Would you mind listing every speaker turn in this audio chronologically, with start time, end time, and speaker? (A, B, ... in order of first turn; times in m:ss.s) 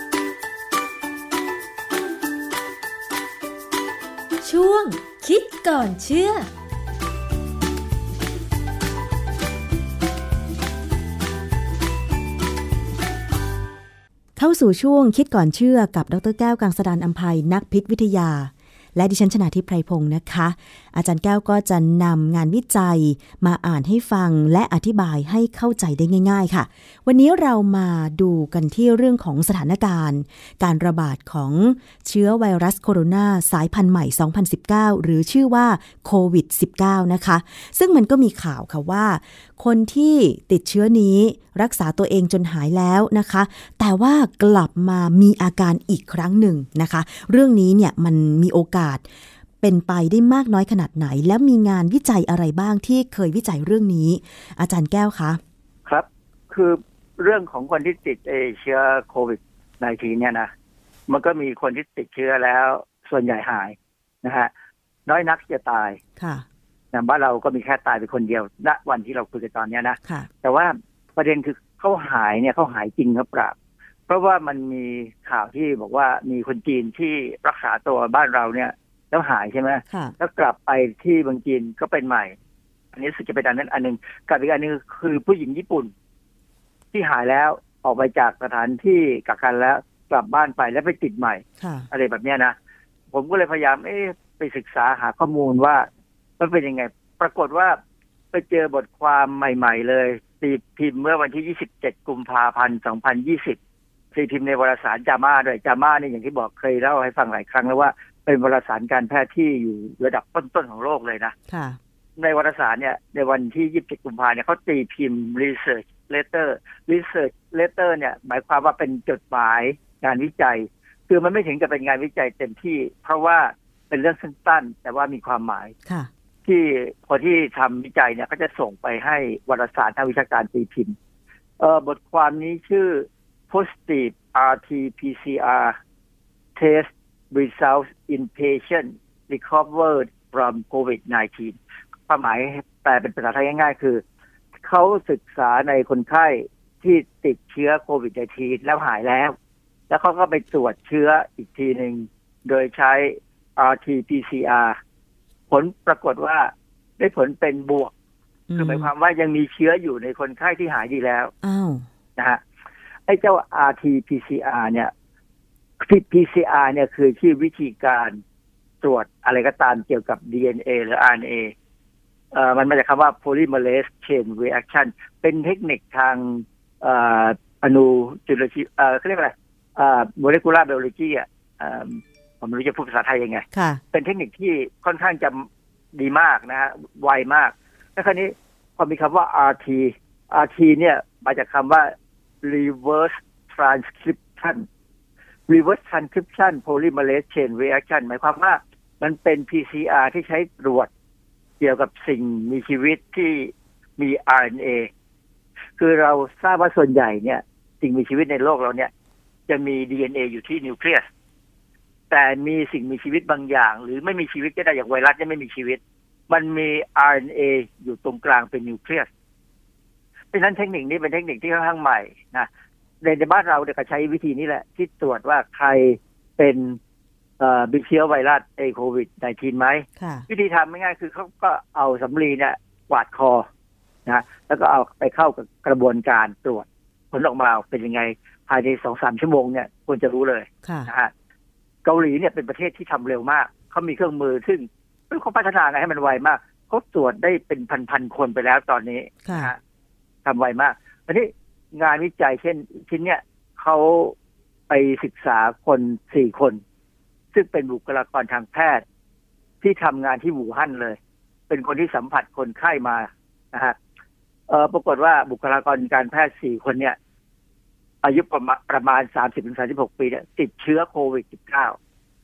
0:04.4-0:06.5 A
0:14.4-0:49.0 B
0:49.6-0:55.4 B
0:55.8-1:00.5 C
1:01.1-1:04.5 C
1:05.1-1:06.0 C
1:06.2-1:06.4 B
1:06.9-1:13.5 C
1:14.1-1:22.3 C
1:19.9-1:20.1 B
1:22.9-1:25.9 C
1:26.9-1:32.5 C
1:31.6-1:31.9 B
1:33.1-1:35.9 C
1:36.4-1:37.8 C
1:38.3-1:43.6 C
1:44.1-1:51.3 C
1:51.5-1:51.8 B
1:52.2-2:05.7 C
2:06.4-2:10.9 C
2:11.6-2:15.8 C
2:16.6-2:21.6 C
2:22.1-2:24.0 C
2:24.6-2:29.3 C
2:29.9-2:34.8 C
2:35.5-2:37.9 C
2:38.5-2:38.9 B
2:38.6-2:41.3 C
2:41.4-2:41.9 B
2:43.1-2:44.9 C
2:45.8-2:48.2 C
2:48.8-2:51.5 C
2:52.3-3:14.6 C
3:03.5-3:03.8 B
3:15.5-3:20.9 C
3:21.6-3:24.9 C
3:25.8-3:28.9 C
3:29.5-3:31.1 C
3:32.1-3:39.1 C
3:40.3-3:42.5 C
3:43.0-3:46.8 C
3:47.4-3:53.4 C
3:50.0-3:50.2 B
3:54.0-4:01.1 C
4:00.6-4:00.9 B
4:01.8-4:09.6 C
4:09.2-4:09.5 B
4:10.2-4:14.1 C
4:14.7-4:16.6 C
4:17.3-4:18.8 C
4:19.6-4:21.0 C
4:21.5-4:23.8 C
4:24.5-4:27.0 C
4:28.0-4:31.8 C